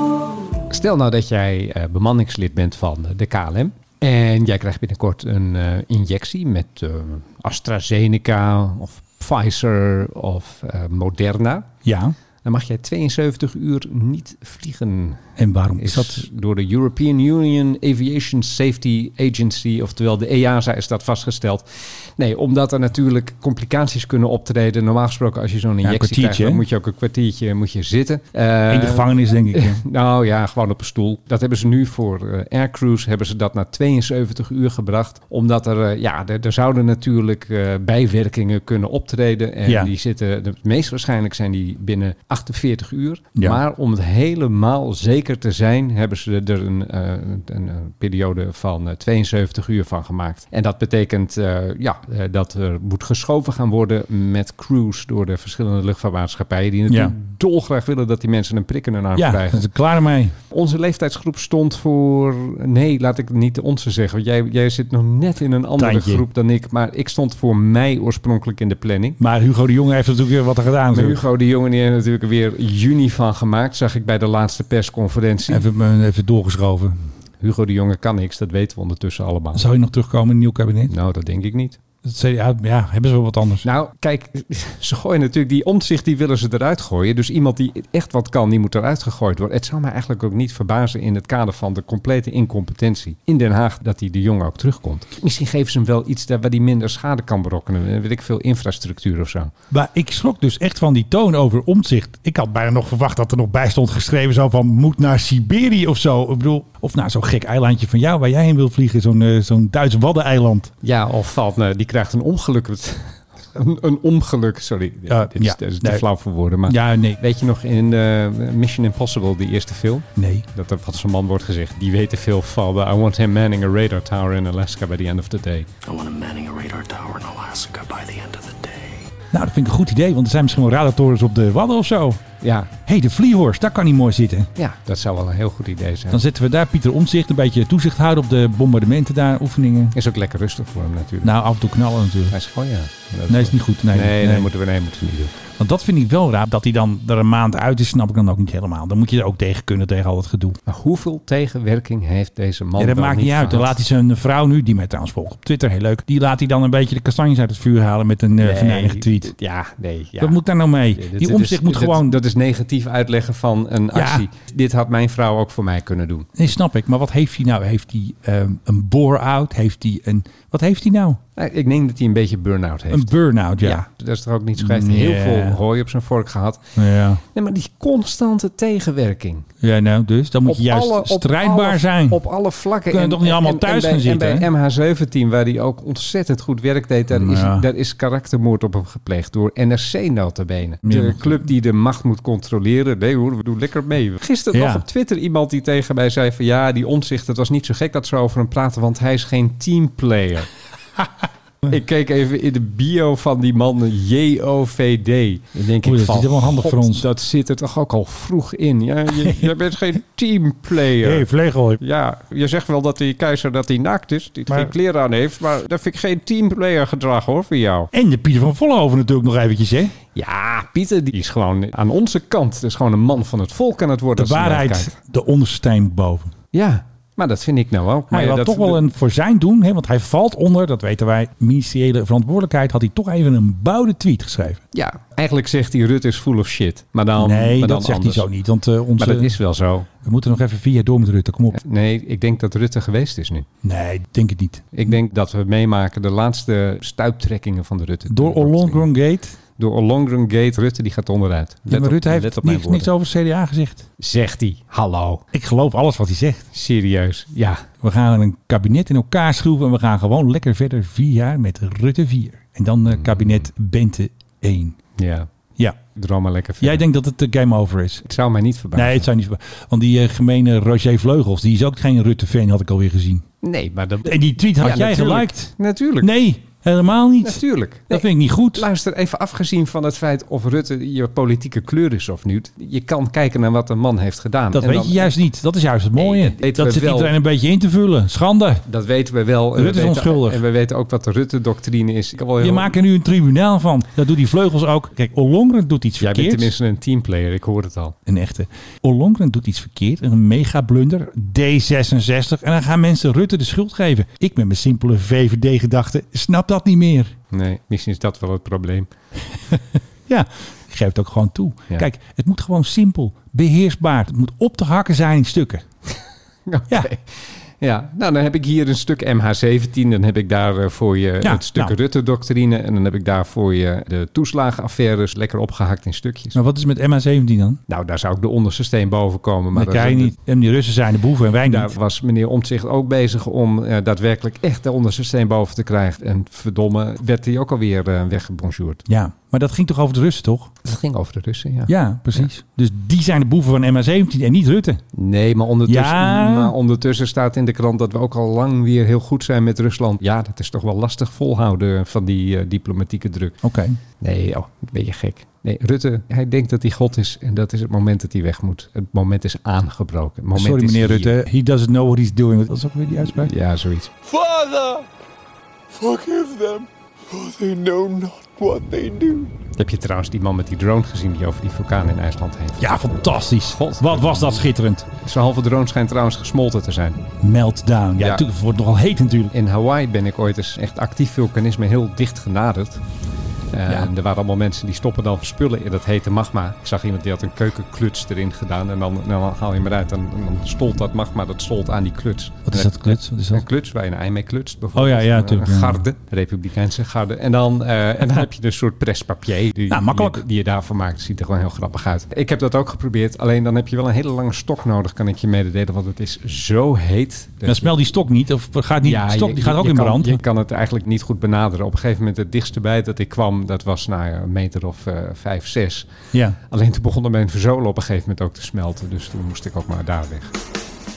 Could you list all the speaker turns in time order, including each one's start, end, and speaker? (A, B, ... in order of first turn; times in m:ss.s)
0:00.7-0:11.7 A
0:11.8-0:12.1 B
0:12.4-0:59.7 A
0:15.4-0:16.2 B
0:25.8-0:26.6 B
0:28.7-0:29.8 B
0:39.6-0:39.9 B
0:56.9-0:57.1 B
0:59.2-1:00.3 B
1:00.5-1:09.2 A
1:05.8-1:06.2 B
1:09.2-1:11.2 B
1:10.9-1:15.6 A
1:15.5-1:17.0 B
1:17.4-1:19.6 A
1:19.5-1:20.9 B
1:20.9-1:21.8 A
1:22.0-1:23.6 B
1:23.6-1:39.5 A
1:39.7-1:50.7 B
1:50.8-2:05.7 A
1:55.1-1:56.0 B
1:56.7-1:57.2 B
2:00.2-2:00.4 B
2:09.3-2:12.2 B
2:12.4-2:12.7 A
2:12.8-2:14.5 B
2:14.6-2:16.2 A
2:16.1-2:20.0 B
2:19.9-2:21.3 A
2:21.2-2:22.4 B
2:22.3-2:25.3 A
2:23.3-2:24.5 B
2:25.6-2:30.6 B
2:30.7-2:33.8 A
2:32.8-2:39.3 B
2:38.4-2:40.4 A
2:40.2-2:42.2 B
2:40.9-2:46.3 A
2:43.9-2:44.2 B
2:46.4-2:51.2 B
2:51.4-2:53.1 A
2:52.9-2:53.8 B
2:53.6-2:56.6 A
2:54.6-2:55.6 B
2:56.8-2:57.2 B
2:57.3-2:59.5 A
2:59.6-3:02.2 B
3:00.4-3:20.5 A
3:02.9-3:04.5 B
3:07.1-3:07.6 B
3:10.8-3:11.4 B
3:14.5-3:14.8 B
3:21.6-3:31.2 A
3:25.8-3:27.1 B
3:29.2-3:29.5 B
3:31.0-3:31.8 B
3:31.8-3:37.9 A
3:37.9-3:39.9 B
3:40.1-3:44.9 A
3:44.2-3:46.3 B
3:46.5-3:48.8 A
3:48.1-3:54.6 B
3:54.7-3:58.3 A
3:57.2-3:59.4 B
3:59.0-3:59.9 A
4:00.0-4:01.6 B
4:01.5-4:03.5 A
4:03.6-4:04.6 B
4:04.7-4:08.9 A
4:08.1-4:09.4 B
4:09.6-4:12.9 A
4:11.7-4:13.9 B
4:14.0-4:15.2 A
4:15.3-4:16.5 B
4:16.5-4:17.6 A
4:17.8-4:24.8 B
4:22.9-4:23.2 A
4:25.0-4:25.3 A
4:25.9-4:26.8 A
4:26.6-4:28.0 B
4:28.0-4:29.1 A
4:28.7-4:33.2 B
4:33.4-4:36.1 A
4:34.0-4:38.7 B
4:37.2-4:45.2 A
4:44.5-4:48.6 B
4:46.0-4:47.1 A
4:48.6-4:52.7 A
4:49.6-4:50.4 B
4:52.4-4:56.5 B
4:56.0-4:58.0 A
4:58.0-5:07.1 B
5:07.3-5:08.9 A
5:09.5-5:15.6 B
5:16.5-5:26.4 A
5:21.2-5:21.8 B
5:26.3-5:27.6 B
5:27.7-5:30.1 A
5:29.5-5:31.7 B
5:31.4-5:38.8 A
5:38.9-5:40.5 B
5:40.6-5:42.2 A
5:41.7-5:44.8 B
5:44.9-5:53.4 A
5:45.6-5:46.5 B
5:53.4-5:53.8 B
5:54.0-6:01.1 A
6:00.3-6:03.3 B
6:03.1-6:03.9 A
6:04.0-6:04.8 C
6:05.7-6:09.3 C
6:09.6-6:14.4 A
6:12.6-6:14.8 B
6:15.0-6:17.0 A
6:17.2-6:19.3 B
6:18.0-6:18.2 A
6:19.3-6:22.8 A
6:23.5-6:47.8 A
6:32.5-6:33.4 B
6:34.7-6:35.8 B
6:39.7-6:40.2 B
6:47.4-6:50.2 B
6:48.8-6:55.9 A
6:56.5-7:00.3 A